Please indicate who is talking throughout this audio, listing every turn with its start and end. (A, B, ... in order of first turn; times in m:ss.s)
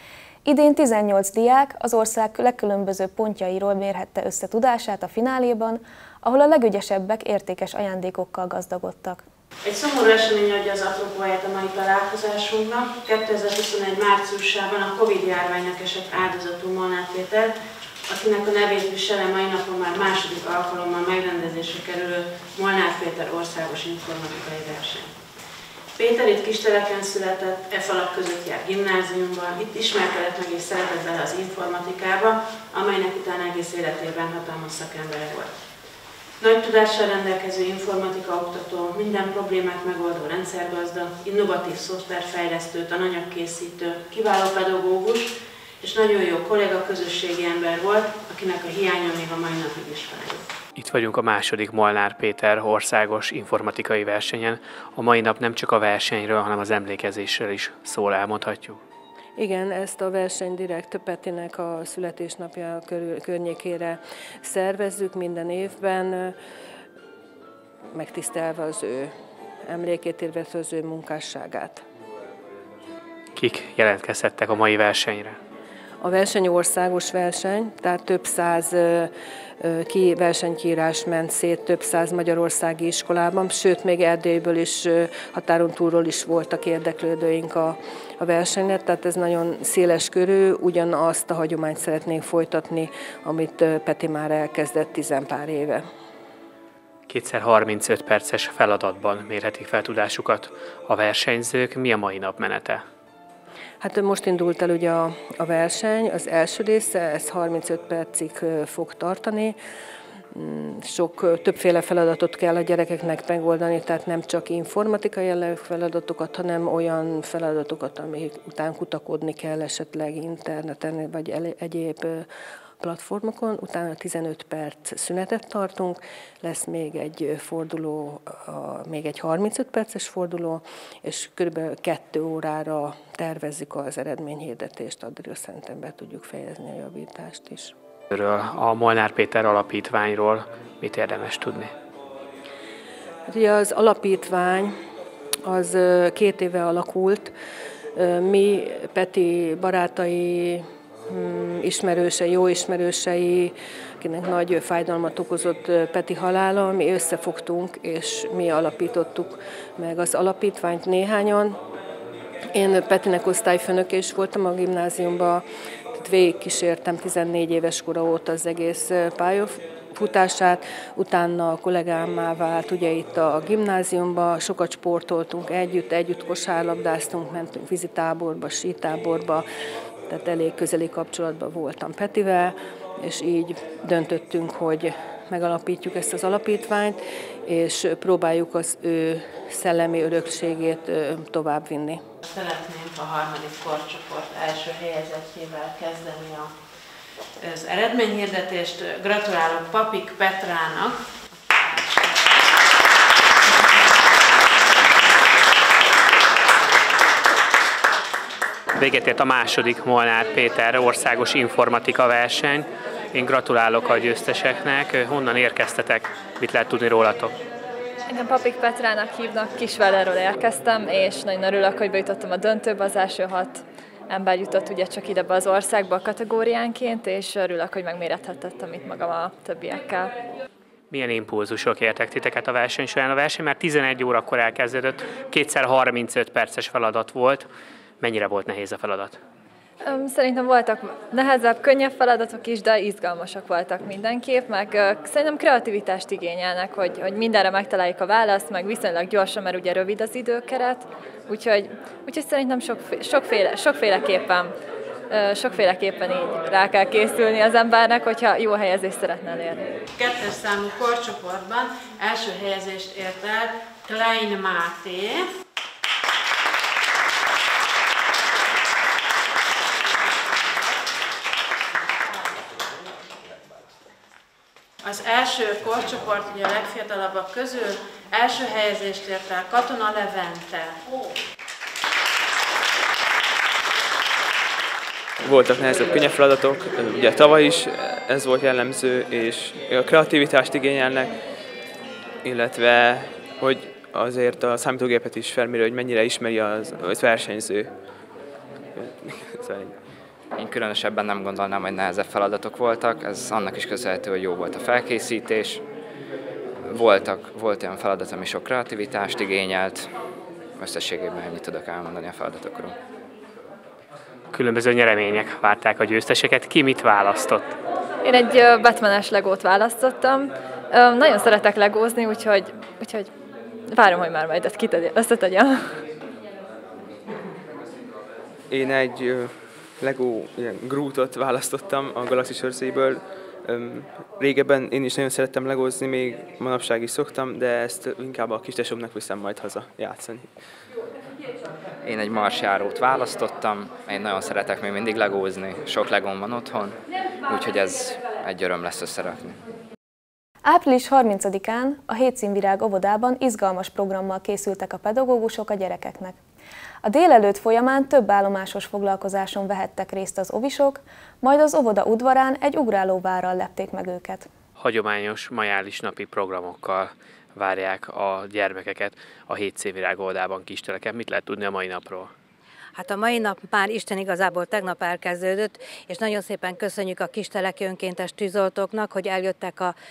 0:00.4-0:09.2 A
0:09.6-0:17.5 B
0:18.1-0:25.2 B
0:26.0-0:35.6 B
0:36.4-0:50.5 B
0:50.8-0:58.8 C
0:59.4-1:06.4 D
1:07.9-1:09.1 D
1:09.7-1:11.8 D
1:13.4-1:15.4 C
1:16.0-1:35.8 D
1:37.1-1:42.8 C
1:43.8-1:49.6 D
1:50.3-2:02.3 D
2:02.8-2:17.7 D
2:18.1-2:21.7 C
2:23.3-2:24.7 D
2:25.4-2:27.3 D
2:28.0-2:41.6 D
2:42.5-2:59.4 D
3:00.1-3:12.0 D
3:12.2-3:16.7 B
3:17.4-3:21.0 B
3:21.5-3:22.4 B
3:28.8-3:37.4 C
3:38.1-3:50.2 E
3:50.9-3:57.5 C
3:58.0-3:59.2 C
3:59.8-4:14.5 E
4:15.1-4:19.7 E
4:20.0-4:25.2 B
4:34.8-4:40.8 B
4:45.2-4:51.2 F
4:52.2-4:57.9 F
4:58.7-4:59.8 F
5:00.4-5:05.6 G
5:06.7-5:09.9 G
5:10.6-5:12.8 G
5:14.3-5:17.6 C
5:18.0-5:23.1 E
5:23.7-5:25.8 E
5:28.5-5:40.7 F
5:41.8-5:49.4 G
5:50.4-5:56.2 A
5:56.8-6:04.3 A
6:04.6-6:12.1 C
6:12.8-6:19.8 H